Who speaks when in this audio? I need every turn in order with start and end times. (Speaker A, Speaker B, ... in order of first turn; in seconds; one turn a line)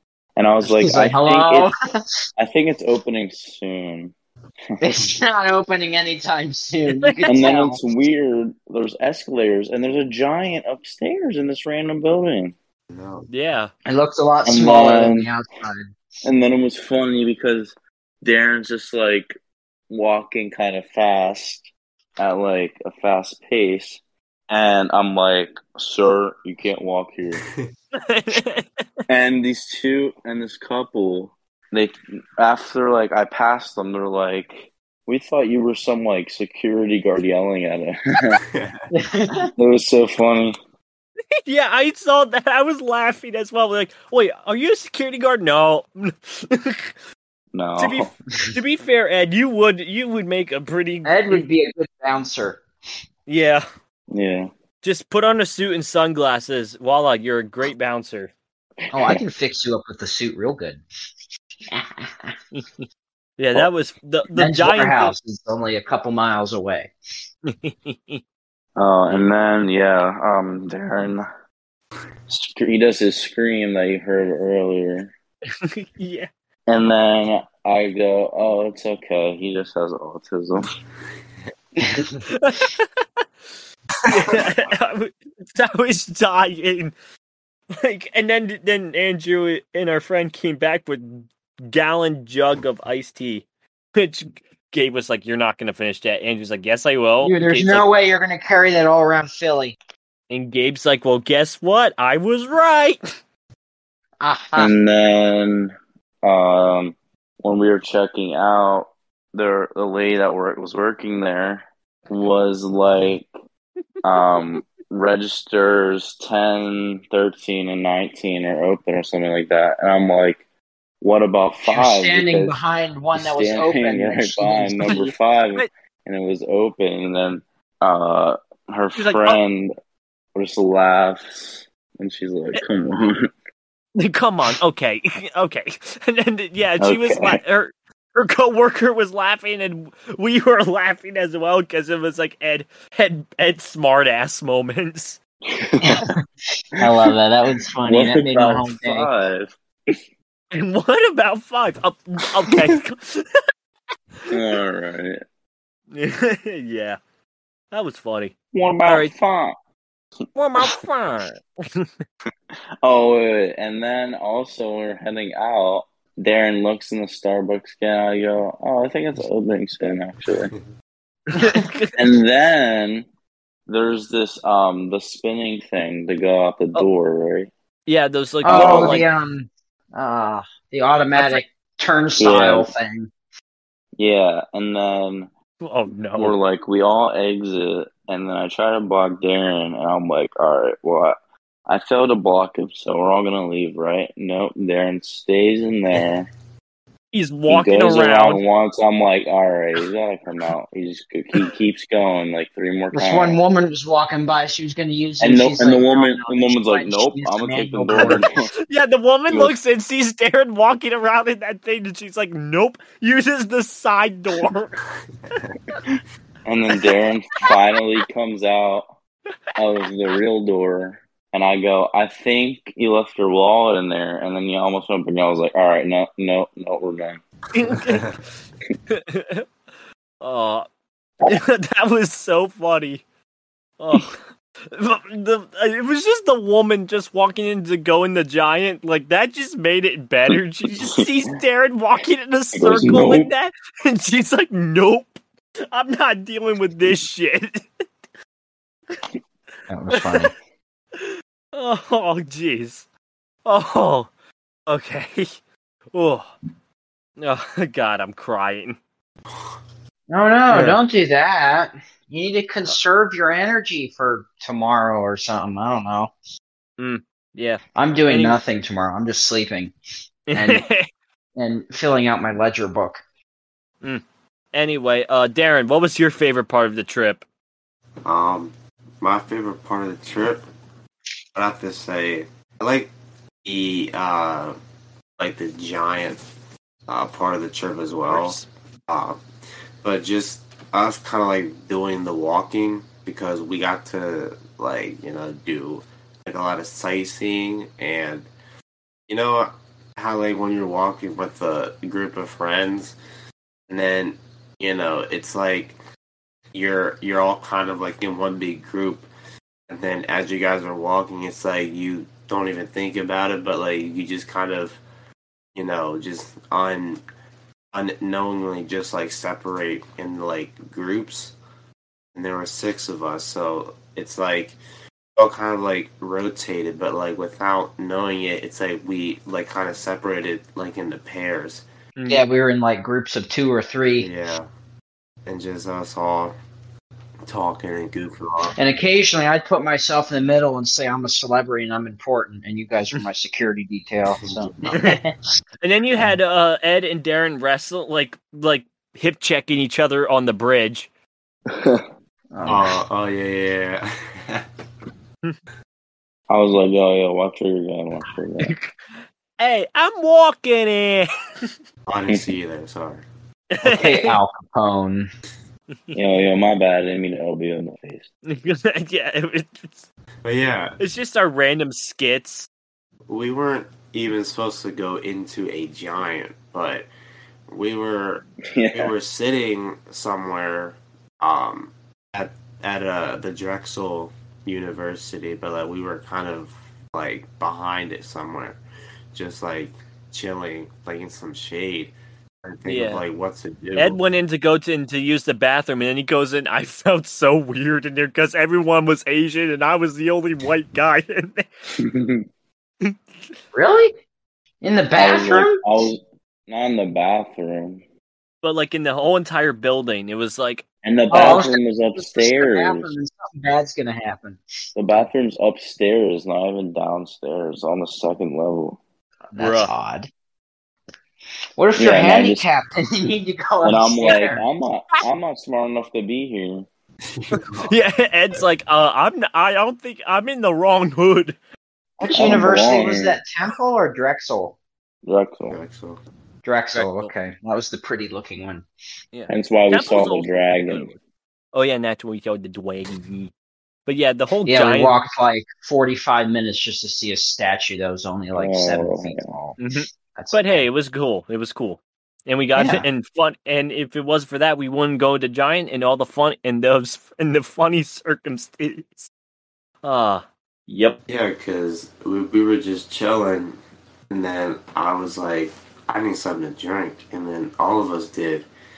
Speaker A: 0.4-1.7
Speaker B: 0.6-2.3
Speaker A: 2.4-4.2
Speaker B: 4.8-7.8
Speaker C: 6.9-7.2
Speaker A: 7.3-12.6
Speaker D: 12.9-13.3
Speaker C: 13.3-13.7
Speaker B: 13.8-15.9
Speaker A: 14.5-15.3
Speaker A: 16.2-19.4
Speaker A: 19.9-27.4
Speaker C: 27.9-28.7
Speaker A: 29.1-38.4
Speaker D: 38.5-38.8
Speaker B: 38.9-39.5
Speaker A: 39.6-40.6
Speaker C: 41.5-47.0
Speaker A: 47.5-48.1
Speaker C: 47.8-51.4
Speaker B: 51.0-52.6
Speaker C: 53.3-53.6
Speaker A: 54.1-54.5
Speaker C: 54.8-58.3
Speaker A: 58.9-59.2
Speaker B: 58.9-60.8
Speaker B: 61.7-62.4
Speaker C: 62.5-62.8
Speaker C: 63.4-65.2
Speaker B: 64.4-66.9
Speaker C: 67.5-68.2
Speaker A: 68.8-71.3
Speaker A: 72.3-75.1
Speaker C: 75.6-76.3
Speaker A: 76.7-80.7
Speaker B: 81.8-82.2
Speaker C: 82.3-83.2
Speaker D: 84.1-84.5
Speaker C: 84.1-86.9
Speaker C: 87.8-97.9
Speaker B: 97.2-99.8
Speaker C: 100.3-103.0
Speaker B: 104.2-104.7
Speaker A: 104.6-105.7
Speaker A: 106.2-113.3
Speaker A: 114.0-120.4
Speaker A: 121.0-122.6
Speaker B: 121.7-125.1
Speaker A: 123.1-129.7
Speaker C: 124.9-125.7
Speaker C: 129.0-129.4
Speaker A: 130.3-133.3
Speaker C: 134.0-145.2
Speaker A: 136.8-137.4
Speaker A: 145.5-146.1
Speaker B: 145.8-146.1
Speaker B: 146.7-149.1
Speaker A: 146.8-147.1
Speaker A: 147.8-150.0
Speaker C: 150.5-153.3
Speaker A: 154.3-155.2
Speaker C: 155.9-157.0
Speaker C: 157.7-158.3
Speaker A: 158.5-159.6
Speaker C: 158.9-159.1
Speaker C: 160.3-161.9
Speaker A: 162.8-170.5
Speaker C: 171.3-172.0
Speaker A: 171.9-173.1
Speaker A: 173.7-177.5
Speaker C: 177.9-179.1
Speaker B: 178.4-183.1
Speaker A: 178.5-179.1
Speaker C: 181.2-181.4
Speaker A: 182.2-182.7
Speaker A: 184.0-185.3
Speaker C: 185.6-186.3
Speaker A: 186.2-191.2
Speaker A: 191.7-196.3
Speaker C: 197.1-198.4
Speaker A: 197.5-203.4
Speaker B: 202.9-208.3
Speaker A: 205.2-208.5
Speaker C: 208.7-214.8
Speaker A: 209.3-209.6
Speaker D: 215.3-215.6
Speaker A: 216.5-218.9
Speaker A: 219.6-227.2
Speaker C: 227.5-228.1
Speaker D: 227.9-228.2
Speaker C: 228.9-229.4
Speaker C: 230.2-230.7
Speaker C: 231.3-233.0
Speaker C: 233.8-245.2
Speaker A: 242.6-243.3
Speaker C: 245.7-247.6
Speaker B: 249.7-250.3
Speaker C: 249.9-250.3
Speaker C: 251.0-252.8
Speaker C: 253.4-254.1
Speaker C: 254.7-255.3
Speaker C: 255.9-256.3
Speaker C: 257.2-258.8
Speaker D: 259.3-259.6
Speaker B: 260.1-266.1
Speaker C: 260.5-260.8
Speaker C: 266.8-268.4
Speaker B: 267.8-269.7
Speaker C: 270.3-270.9
Speaker B: 270.3-270.6
Speaker B: 271.4-273.0
Speaker C: 273.8-277.2
Speaker D: 278.1-280.4
Speaker D: 281.4-282.9
Speaker D: 283.4-284.6
Speaker D: 285.2-286.2
Speaker D: 286.9-289.2
Speaker C: 288.1-288.5
Speaker D: 289.8-298.3
Speaker D: 299.1-303.0
Speaker D: 303.7-305.8
Speaker D: 306.5-309.1
Speaker D: 309.7-314.8
Speaker D: 315.6-317.0
Speaker D: 317.7-321.4
Speaker D: 322.1-324.6
Speaker D: 325.2-331.6
Speaker C: 332.0-332.2
Speaker B: 332.1-334.1
Speaker D: 334.0-334.5
Speaker D: 335.3-336.3
Speaker D: 337.3-338.6
Speaker B: 338.6-345.1
Speaker D: 344.2-344.8
Speaker C: 344.7-345.0
Speaker C: 345.6-350.9
Speaker A: 351.5-351.8
Speaker B: 352.3-352.8
Speaker D: 352.4-354.4
Speaker A: 356.3-358.5
Speaker C: 358.4-361.1
Speaker D: 361.9-363.1
Speaker C: 363.5-364.2
Speaker B: 363.6-365.1
Speaker A: 365.9-368.1
Speaker C: 368.3-369.9
Speaker D: 370.2-370.8
Speaker C: 370.8-372.5
Speaker D: 373.1-376.9
Speaker D: 377.5-388.6
Speaker A: 378.5-378.9
Speaker D: 389.1-394.0
Speaker C: 392.7-393.0
Speaker C: 393.8-401.5
Speaker A: 401.8-402.3
Speaker B: 403.5-403.9
Speaker B: 404.6-405.9
Speaker A: 405.0-407.8
Speaker C: 408.4-411.4
Speaker A: 410.8-412.9
Speaker B: 411.1-414.4
Speaker A: 414.8-418.8
Speaker B: 419.3-420.1
Speaker C: 419.4-419.7
Speaker B: 421.6-424.4
Speaker A: 421.8-422.5
Speaker A: 423.6-426.7
Speaker D: 427.1-427.8
Speaker C: 427.3-431.4
Speaker B: 432.0-434.6
Speaker A: 432.1-433.2
Speaker A: 435.0-435.6
Speaker D: 435.5-436.0
Speaker B: 436.4-438.7
Speaker C: 436.7-437.1
Speaker C: 439.1-441.0
Speaker A: 439.3-440.9
Speaker C: 441.5-443.3
Speaker C: 443.9-445.0
Speaker B: 444.5-449.6
Speaker A: 448.4-449.3
Speaker C: 449.6-459.1
Speaker B: 450.1-450.6
Speaker B: 452.6-452.9
Speaker C: 459.8-461.0
Speaker D: 461.1-463.6
Speaker D: 464.1-468.5